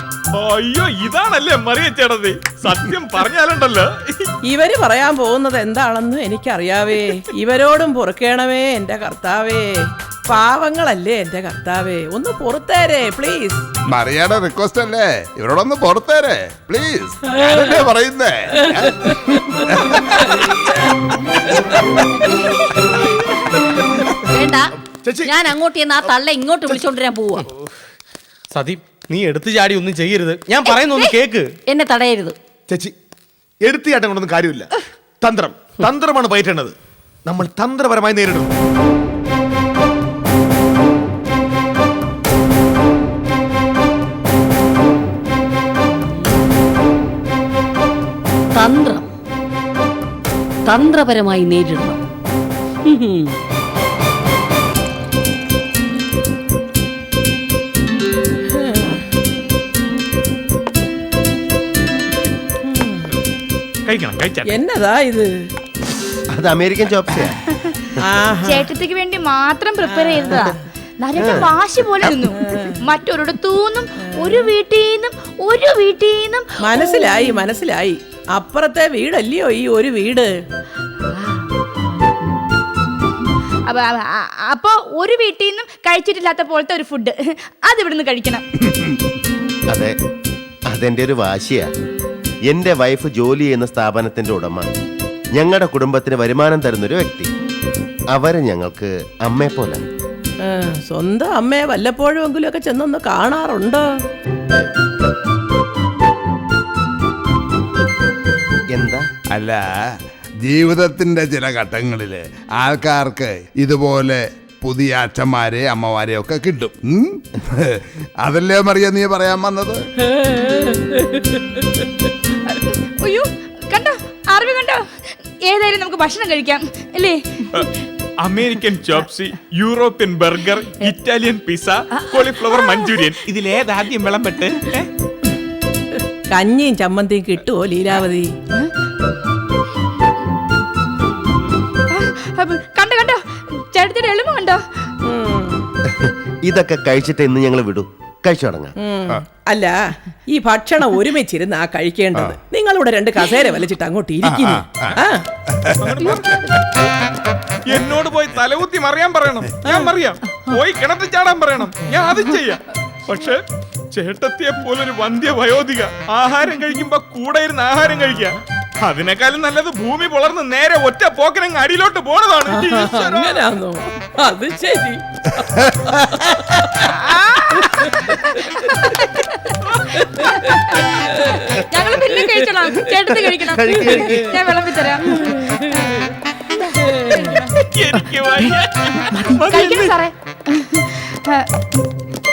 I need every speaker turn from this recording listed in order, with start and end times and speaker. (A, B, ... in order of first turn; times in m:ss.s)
0:00.4-0:04.3 A
0:04.5-0:13.6 B
0:13.9-0:20.4 C
0:24.3-0:24.7 D
0:25.0-0:25.3 E
0:25.2-0:27.5 D
0:28.5-0:31.0 F
0:30.6-0:32.4 D
0:32.7-0:33.0 E
0:33.6-0:34.7 E
0:35.2-0:36.8 E
0:37.3-0:38.5 E
0:48.6-0:49.0 D
0:50.7-0:52.0 D
0:58.5-0:59.0 B
1:02.6-1:03.1 B
1:03.9-1:04.5 A
1:04.5-1:05.3 B
1:06.3-1:07.4 G
1:08.0-1:08.7 B
1:08.4-1:17.1 H
1:09.8-1:10.6 B
1:11.2-1:11.5 G
1:12.3-1:12.8 B
1:14.2-1:14.5 B
1:16.6-1:20.3 B
1:21.1-1:22.2 H
1:23.7-1:28.4 H
1:30.7-1:31.7 G
1:32.5-1:34.7 G
1:35.4-1:37.3 G
1:38.1-1:39.8 G
1:40.4-1:43.8 B
1:48.7-1:49.1 G
1:49.3-1:49.6 C
1:50.4-1:59.8 C
2:00.3-2:01.0 B
2:02.5-2:07.7 H
2:08.2-2:14.9 A
2:12.0-2:13.0 H
2:16.3-2:18.3 B
2:21.9-2:24.6 H
2:25.0-2:25.7 B
2:25.9-2:28.7 G
2:28.8-2:29.8 B
2:30.3-2:35.2 B
2:34.2-2:35.0 C
2:35.5-2:36.0 C
2:35.8-2:36.6 A
2:37.7-2:53.5 A
2:39.6-2:39.9 B
2:52.5-2:56.9 B
2:56.8-3:05.3 H
2:57.6-2:58.2 B
2:59.6-3:00.0 A
3:01.0-3:01.4 B
3:02.0-3:02.4 B
3:03.5-3:04.4 G
3:05.1-3:05.6 B
3:06.8-3:07.5 H
3:07.5-3:10.0 A
3:09.5-3:11.5 H